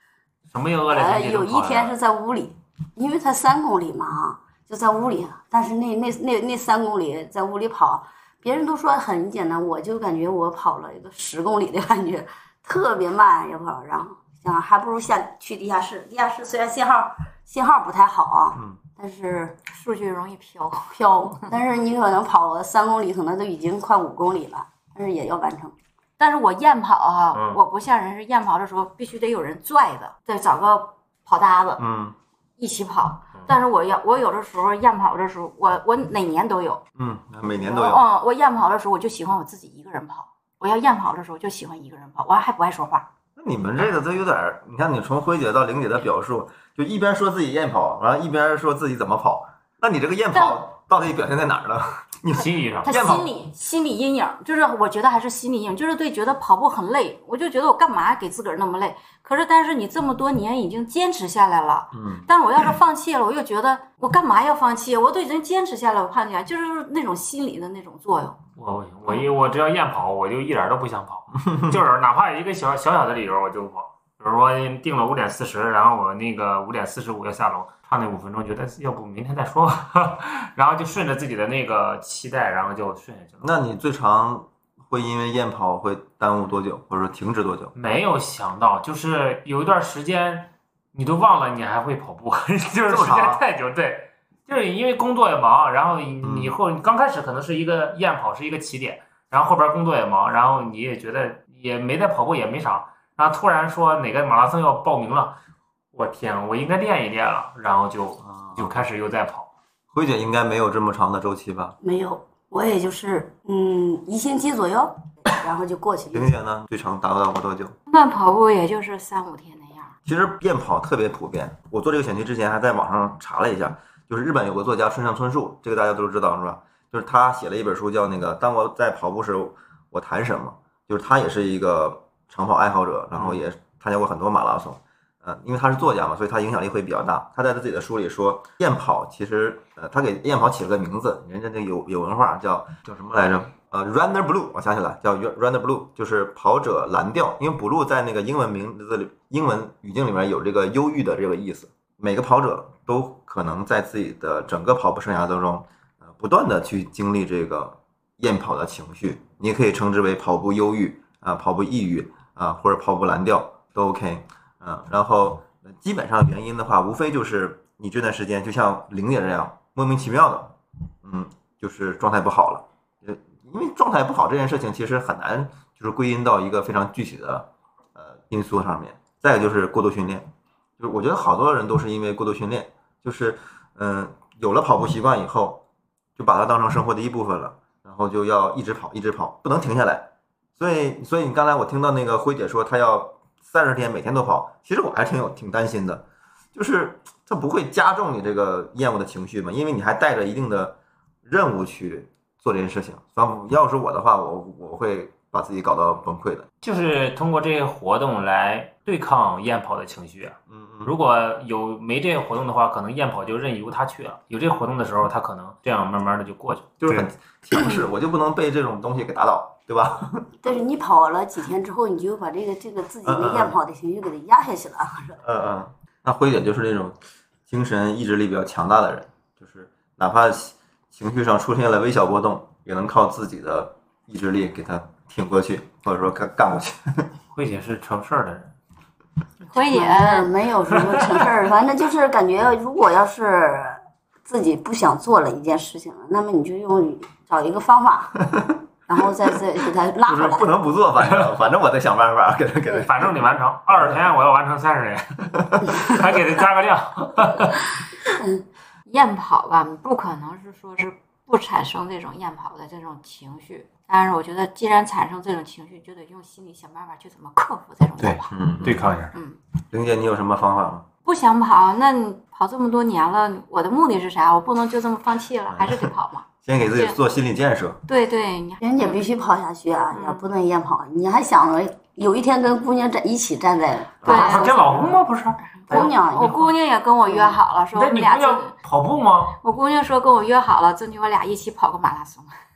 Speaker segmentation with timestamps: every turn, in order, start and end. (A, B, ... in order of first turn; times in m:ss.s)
0:00.5-0:01.9 A
0:00.9-0:19.6 B
0:19.7-0:21.0 C
0:20.9-0:25.7 B
0:26.2-0:31.8 C
0:27.3-0:27.6 A
0:31.8-0:32.2 D
0:32.6-0:36.8 C
0:37.0-0:38.0 D
0:37.6-0:43.0 C
0:43.4-0:53.3 D
0:50.3-0:50.6 C
0:52.3-0:53.0 A
0:52.8-1:08.4 C
1:01.9-1:02.3 D
1:08.6-1:23.5 A
1:11.5-1:11.8 D
1:23.4-1:27.7 D
1:27.7-1:45.4 A
1:32.9-1:33.4 D
1:36.2-1:36.6 D
1:45.9-1:49.5 A
1:48.3-1:48.7 D
1:49.9-1:51.8 D
1:51.8-1:56.3 B
1:56.1-1:57.8 D
1:57.9-1:59.9 C
2:00.0-3:00.3 D
2:13.2-2:13.4 A
3:00.8-3:05.6 D
3:06.2-3:26.5 D
3:26.6-3:37.1 A
3:30.5-3:30.9 D
3:36.8-3:40.2 D
3:40.4-3:45.2 B
3:43.0-3:43.5 D
3:45.2-3:57.1 D
3:57.3-3:58.5 A
3:59.4-4:00.3 C
3:59.5-4:08.2 B
4:08.3-4:08.6 D
4:08.9-4:10.5 B
4:10.0-4:13.1 D
4:12.7-4:17.7 A
4:13.7-4:14.0 D
4:18.2-4:18.4 B
4:18.9-4:28.3 C
4:28.0-4:29.1 A
4:28.3-4:28.9 D
4:29.7-4:30.8 D
4:31.0-4:37.0 C
4:35.5-4:35.9 D
4:36.4-4:37.8 D
4:37.9-4:39.0 C
4:38.6-4:44.9 B
4:39.9-4:40.3 C
4:44.0-4:44.9 C
4:44.0-4:45.9 A
4:45.6-4:48.5 C
4:45.7-4:46.5 B
4:47.1-4:47.3 B
4:47.7-4:49.4 A
4:49.4-4:52.3 C